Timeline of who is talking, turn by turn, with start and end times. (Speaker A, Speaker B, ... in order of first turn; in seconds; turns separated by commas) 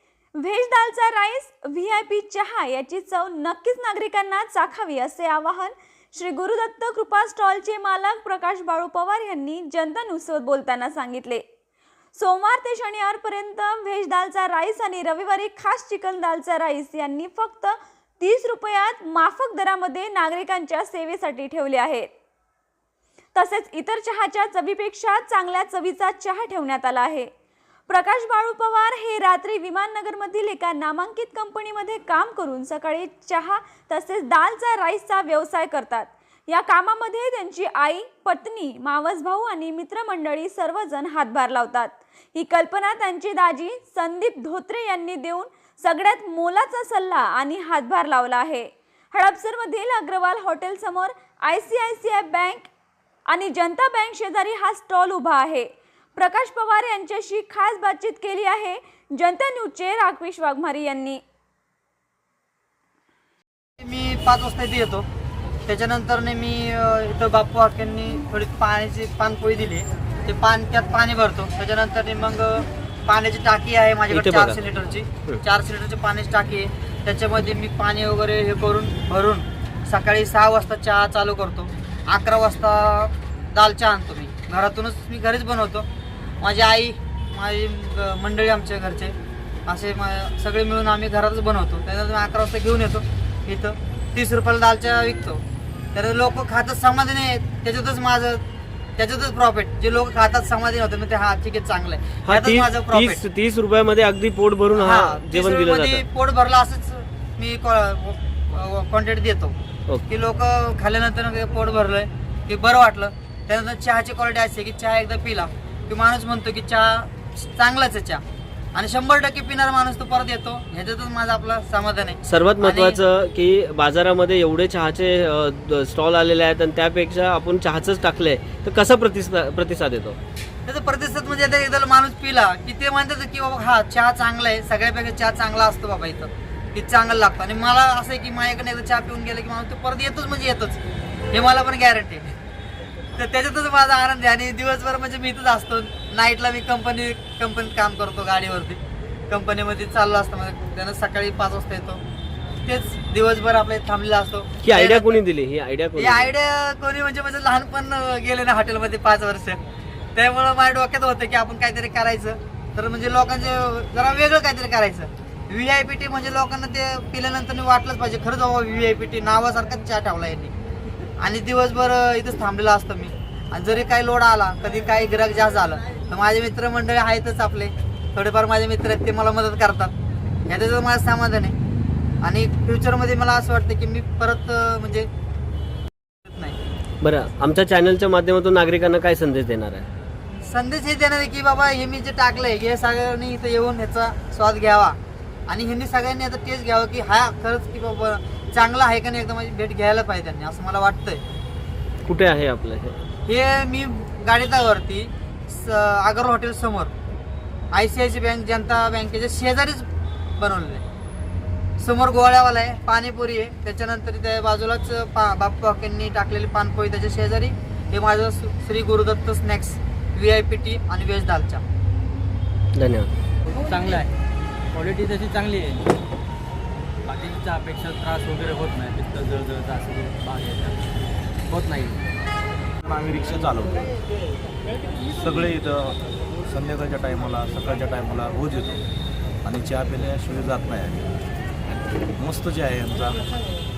Speaker A: 0.4-11.4, Speaker A: 12.1-22.1, Speaker A: 23.3-27.3, Speaker A: 27.9-52.7, Speaker A: 53.3-61.2, Speaker B: 63.8-65.0, Speaker B: 65.7-85.9, Speaker C: 74.1-74.6, Speaker B: 86.4-89.1, Speaker B: 89.7-95.4, Speaker B: 95.9-98.4, Speaker B: 99.0-103.2, Speaker C: 102.2-106.0, Speaker B: 104.7-109.5, Speaker B: 110.1-118.2, Speaker B: 118.7-123.0, Speaker C: 122.2-130.2, Speaker B: 130.7-140.8, Speaker B: 141.3-142.3, Speaker B: 143.2-152.0, Speaker B: 152.6-155.2, Speaker C: 154.6-156.3, Speaker B: 155.9-159.6, Speaker B: 160.1-170.5, Speaker B: 171.2-179.9, Speaker B: 180.5-181.5, Speaker B: 182.2-185.1, Speaker B: 186.2-186.6, Speaker C: 187.0-189.9, Speaker B: 190.4-195.0, Speaker B: 195.5-201.2, Speaker C: 202.0-202.9, Speaker B: 203.3-206.9, Speaker B: 207.7-209.8, Speaker B: 210.4-210.8, Speaker B: 211.8-221.6, Speaker C: 222.8-223.1, Speaker D: 223.6-224.1, Speaker D: 224.7-225.8, Speaker D: 227.1-230.8, Speaker D: 231.5-231.9, Speaker E: 232.8-233.8, Speaker E: 235.1-238.8, Speaker E: 239.4-241.1, Speaker E: 242.2-243.2